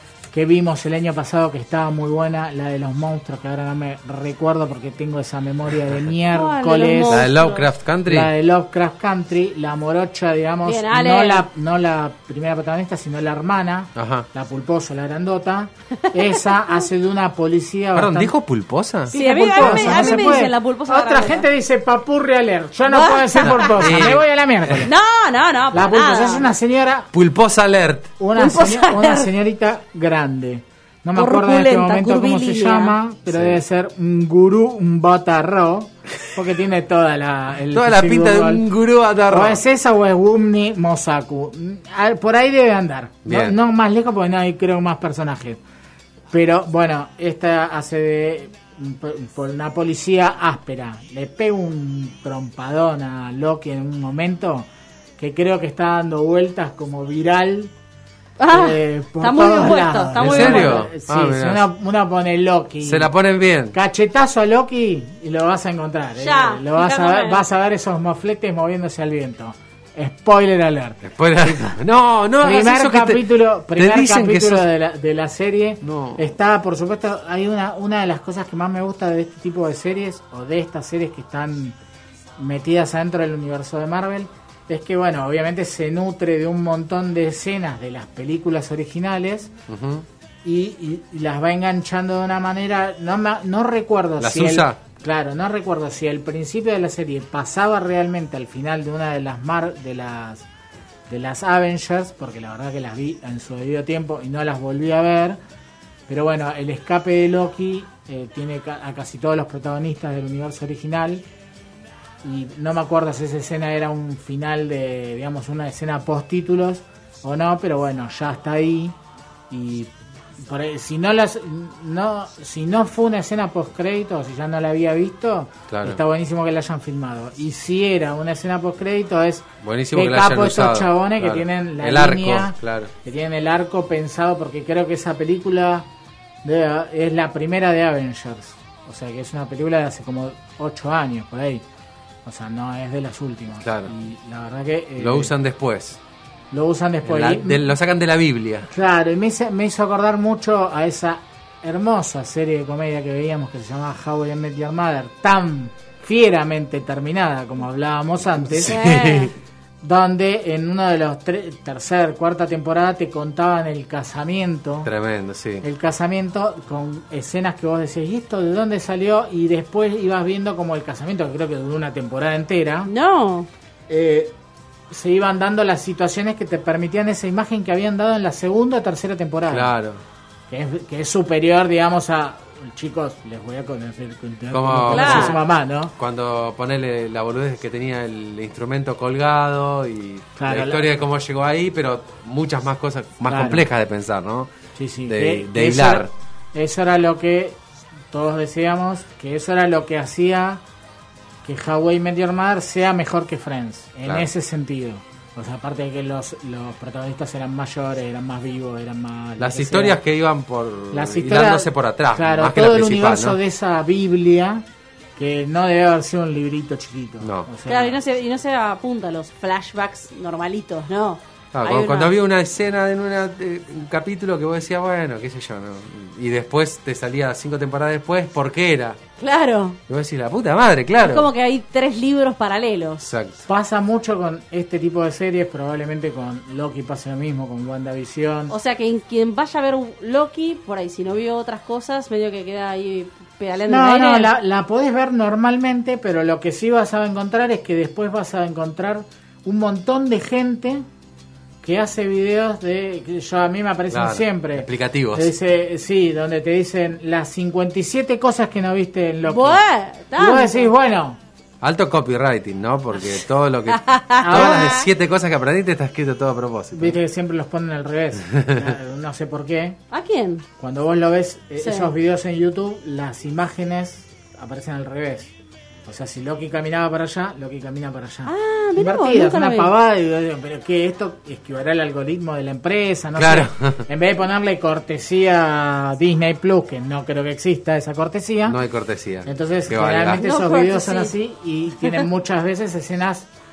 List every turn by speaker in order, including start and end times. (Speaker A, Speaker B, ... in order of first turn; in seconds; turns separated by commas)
Speaker A: 0.3-7.3, Speaker B: 6.3-7.7, Speaker C: 7.1-8.3, Speaker A: 8.1-18.3, Speaker B: 10.7-11.5, Speaker C: 14.0-14.3, Speaker B: 16.0-16.4, Speaker C: 17.9-20.4, Speaker A: 19.1-24.9, Speaker B: 19.1-21.5, Speaker B: 22.9-24.1, Speaker C: 23.4-24.9, Speaker B: 24.8-26.5, Speaker A: 25.7-27.1, Speaker C: 27.1-28.1, Speaker A: 28.2-38.6, Speaker B: 28.4-29.3, Speaker B: 31.1-33.0, Speaker C: 33.3-33.6, Speaker C: 37.7-39.6, Speaker A: 39.3-45.6, Speaker C: 43.2-43.6, Speaker A: 46.3-57.7, Speaker B: 58.4-60.8, Speaker A: 58.5-63.1, Speaker C: 60.2-61.7, Speaker C: 62.8-63.8, Speaker A: 63.7-71.8, Speaker B: 66.2-67.4, Speaker C: 71.0-73.2, Speaker A: 72.4-81.8, Speaker C: 73.8-74.7, Speaker C: 75.8-76.3, Speaker A: 82.4-89.5, Speaker C: 89.7-90.0, Speaker A: 90.4-100.5, Speaker C: 94.2-94.8, Speaker A: 101.1-105.4, Speaker A: 106.1-111.2, Speaker A: 112.2-119.0, Speaker A: 119.5-135.9, Speaker C: 125.7-126.0, Speaker C: 129.6-132.9, Speaker A: 136.4-141.6, Speaker A: 142.2-145.3, Speaker C: 143.6-143.9, Speaker C: 145.0-146.0, Speaker A: 146.5-147.7, Speaker C: 147.1-148.7, Speaker A: 148.7-158.8, Speaker C: 158.6-159.3, Speaker B: 158.6-159.3, Speaker A: 159.8-164.9, Speaker C: 164.8-165.7, Speaker A: 165.6-172.9, Speaker B: 172.9-173.5, Speaker A: 173.9-174.3, Speaker A: 174.9-179.7, Speaker C: 179.5-180.0, Speaker A: 180.5-185.9, Speaker C: 184.5-185.4, Speaker B: 184.9-185.4, Speaker C: 186.0-194.5, Speaker A: 190.4-190.9, Speaker A: 193.3-193.7, Speaker A: 194.8-197.6, Speaker C: 195.1-196.1, Speaker A: 198.1-200.6, Speaker A: 201.4-210.0, Speaker C: 209.4-213.4, Speaker A: 210.9-214.7, Speaker A: 215.2-218.0, Speaker C: 217.2-217.5, Speaker B: 217.7-222.1, Speaker C: 221.5-229.0, Speaker B: 229.2-229.8, Speaker C: 229.9-231.3, Speaker B: 231.0-233.1, Speaker C: 233.1-233.4, Speaker A: 233.5-238.6, Speaker B: 238.5-244.3, Speaker A: 243.7-250.9, Speaker A: 251.6-259.6, Speaker C: 253.9-255.3, Speaker B: 259.3-260.7, Speaker A: 260.2-261.2, Speaker C: 261.6-267.0, Speaker B: 263.7-264.9, Speaker A: 264.2-264.8, Speaker A: 266.7-269.8, Speaker B: 269.9-270.5, Speaker A: 270.6-275.3, Speaker B: 271.6-271.9, Speaker A: 275.9-288.6, Speaker B: 278.3-279.7, Speaker C: 283.2-283.9, Speaker C: 288.5-290.2, Speaker A: 289.2-293.3, Speaker B: 290.2-291.1